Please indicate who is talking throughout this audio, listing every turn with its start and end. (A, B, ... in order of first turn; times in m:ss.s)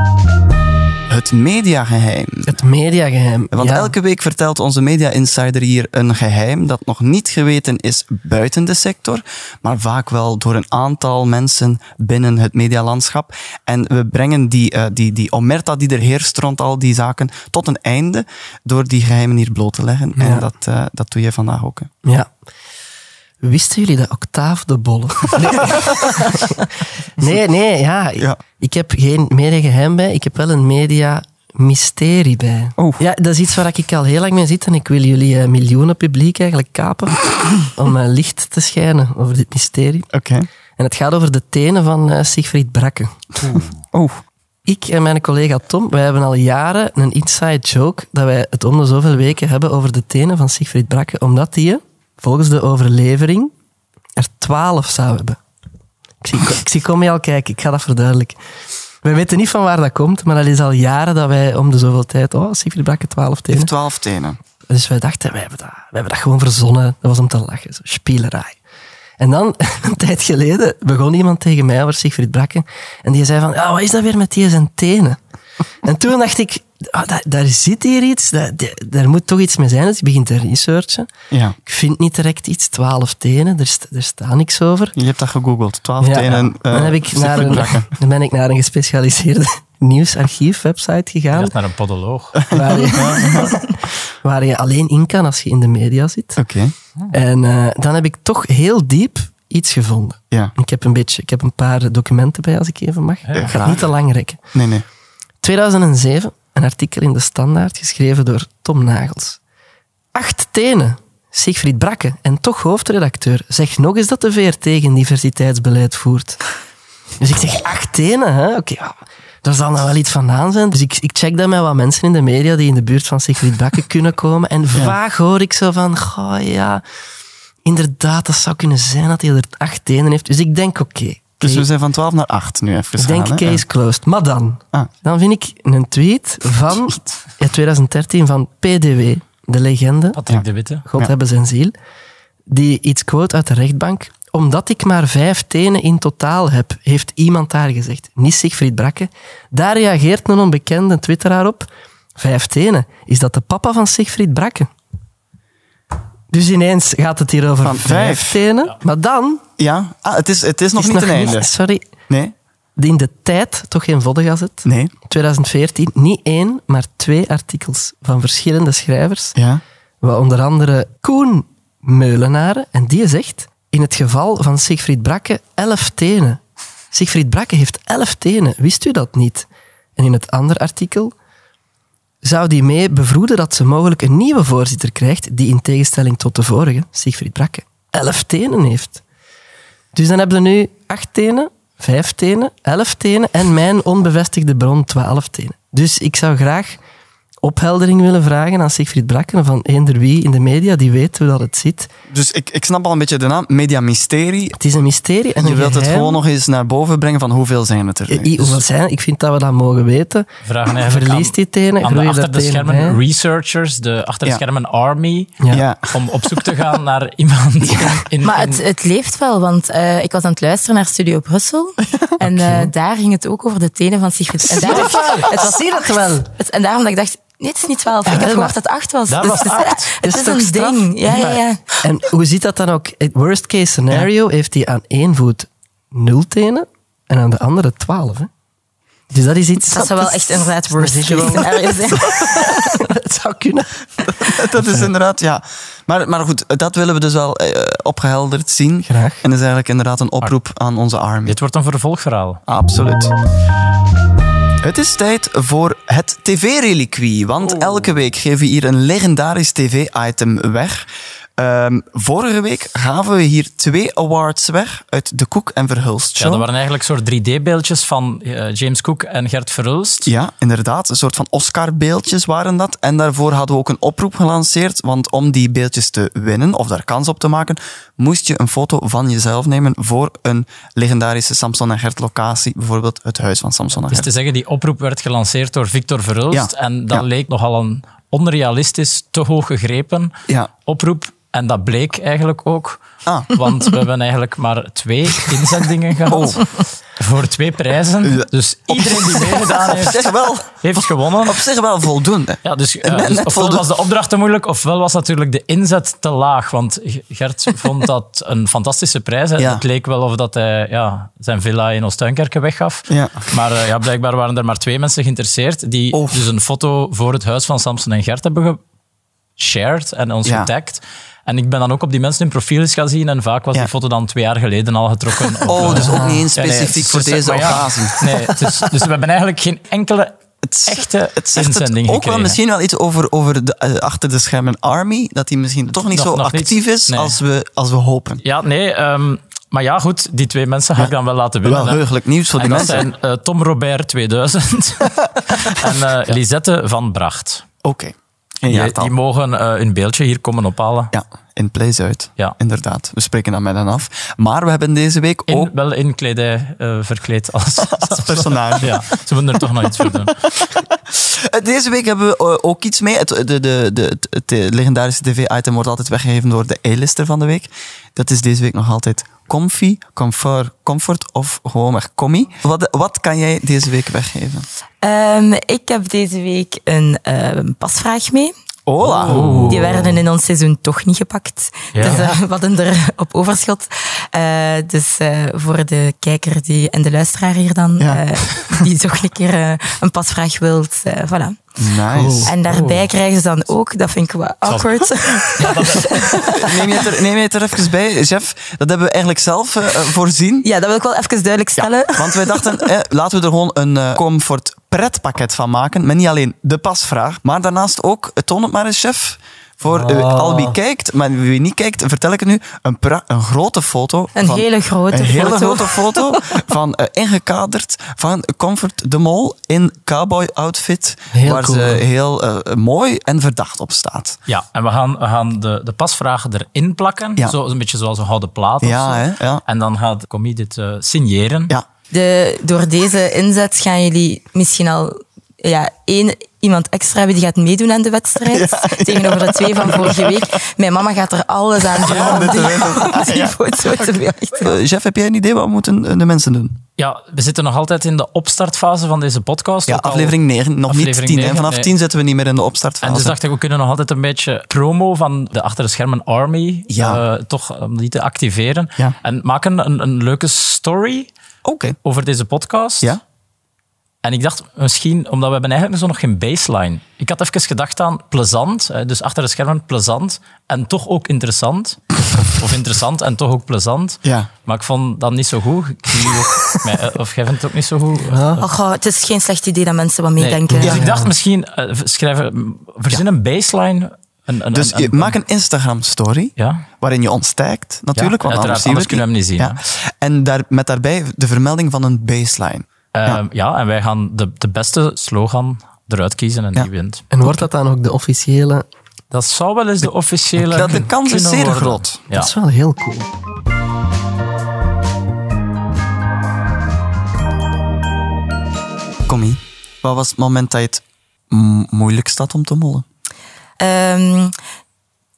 0:01.1-0:02.5 A
0:02.4-0:03.9 B
0:03.5-0:21.9 A
0:20.2-0:20.4 B
0:23.4-0:40.1 B
0:32.8-0:33.0 A
0:40.1-0:40.5 A
0:40.8-0:43.2 B
0:43.5-0:44.2 A
0:44.6-0:53.5 B
0:54.2-0:55.4 B
0:56.2-0:58.4 B
0:59.0-1:03.7 B
1:03.5-1:04.4 A
1:04.7-1:08.6 B
1:09.2-1:15.2 B
1:15.8-1:21.1 B
1:21.3-1:21.6 A
1:21.6-1:24.9 B
1:25.0-1:27.9 A
1:26.0-1:31.5 B
1:31.3-1:32.4 C
1:32.4-1:33.6 A
1:32.5-1:33.6 B
1:34.2-1:36.4 B
1:36.4-1:36.7 A
1:37.1-1:44.4 B
1:43.3-1:43.6 C
1:43.4-1:43.9 A
1:44.5-1:44.8 A
1:45.4-1:49.4 B
1:50.1-1:56.4 B
1:57.2-2:06.8 B
2:07.6-2:11.7 B
2:11.4-2:13.6 A
2:13.0-2:20.2 B
2:20.1-2:20.8 C
2:20.9-2:21.7 B
2:22.5-2:34.7 B
2:36.3-2:39.4 B
2:37.6-2:38.4 A
2:39.6-2:41.5 A
2:40.8-2:41.9 B
2:42.8-2:49.3 B
2:44.6-2:44.9 A
2:49.4-2:49.6 A
2:50.0-2:56.4 B
2:56.9-3:01.1 B
3:02.2-3:09.0 B
3:09.9-3:16.8 B
3:17.4-3:21.9 B
3:22.1-3:24.6 A
3:24.6-3:26.2 B
3:25.4-3:28.6 A
3:28.1-3:33.0 B
3:30.4-3:38.6 C
3:35.5-3:35.9 A
3:38.2-3:51.6 D
3:42.2-3:42.7 B
3:44.5-3:46.3 B
3:48.0-3:48.5 B
3:49.1-3:49.9 C
3:50.0-3:58.3 B
3:59.1-4:04.9 B
3:59.7-4:02.7 D
4:04.2-4:11.4 A
4:08.8-4:09.2 B
4:11.2-4:12.4 C
4:12.5-4:13.1 A
4:14.6-4:20.8 A
4:21.4-4:26.4 A
4:26.2-4:30.1 C
4:30.0-4:44.1 A
4:43.9-5:00.0 C
4:46.3-4:47.0 A
4:53.0-4:53.3 A
4:56.1-4:56.4 A
4:58.0-5:03.6 A
5:00.6-5:01.4 C
5:02.4-5:18.6 C
5:09.4-5:09.6 A
5:12.9-5:13.3 A
5:15.9-5:16.2 A
5:19.4-5:32.4 C
5:25.4-5:28.0 A
5:25.7-5:26.2 B
5:30.4-5:38.2 A
5:35.9-5:37.2 C
5:38.2-5:41.8 C
5:41.4-5:42.9 A
5:42.4-5:47.4 C
5:47.6-5:48.9 A
5:48.5-5:50.9 C
5:50.9-5:55.5 A
5:55.3-6:00.2 C
5:57.7-5:58.8 A
6:00.4-6:14.5 A
6:14.8-6:18.3 D
6:18.6-6:19.8 A
6:18.8-6:19.9 C
6:19.4-6:31.4 D
6:21.7-6:22.1 C
6:27.8-6:28.6 A
6:31.6-6:32.3 A
6:31.9-6:32.6 B
6:32.2-6:36.8 D
6:32.5-6:32.8 C
6:35.4-6:36.2 C
6:36.2-6:40.5 A
6:40.4-6:42.6 D
6:41.6-7:04.2 A
6:49.7-6:50.6 B
6:54.2-6:56.4 D
7:01.1-7:01.8 B
7:04.3-7:11.5 C
7:08.6-7:09.4 A
7:11.9-7:24.6 D
7:18.3-7:20.2 A
7:21.7-7:26.6 A
7:21.9-7:22.4 C
7:26.8-7:30.2 C
7:29.7-7:33.2 A
7:30.7-7:31.7 C
7:32.8-7:41.1 C
7:36.7-7:37.0 A
7:41.4-7:41.8 A
7:41.8-7:42.9 C
7:44.0-7:58.5 C
7:54.0-7:54.3 A
7:58.0-7:58.4 B
7:58.4-8:00.8 D
8:00.2-8:05.2 C
8:00.5-8:01.1 B
8:04.5-8:13.2 A
8:06.4-8:06.6 C
8:08.0-8:09.6 C
8:12.9-8:17.0 C
8:17.1-8:18.6 B
8:19.1-8:22.3 C
8:20.4-8:22.0 A
8:22.1-8:23.1 B
8:29.1-8:32.8 A
8:33.6-8:34.3 D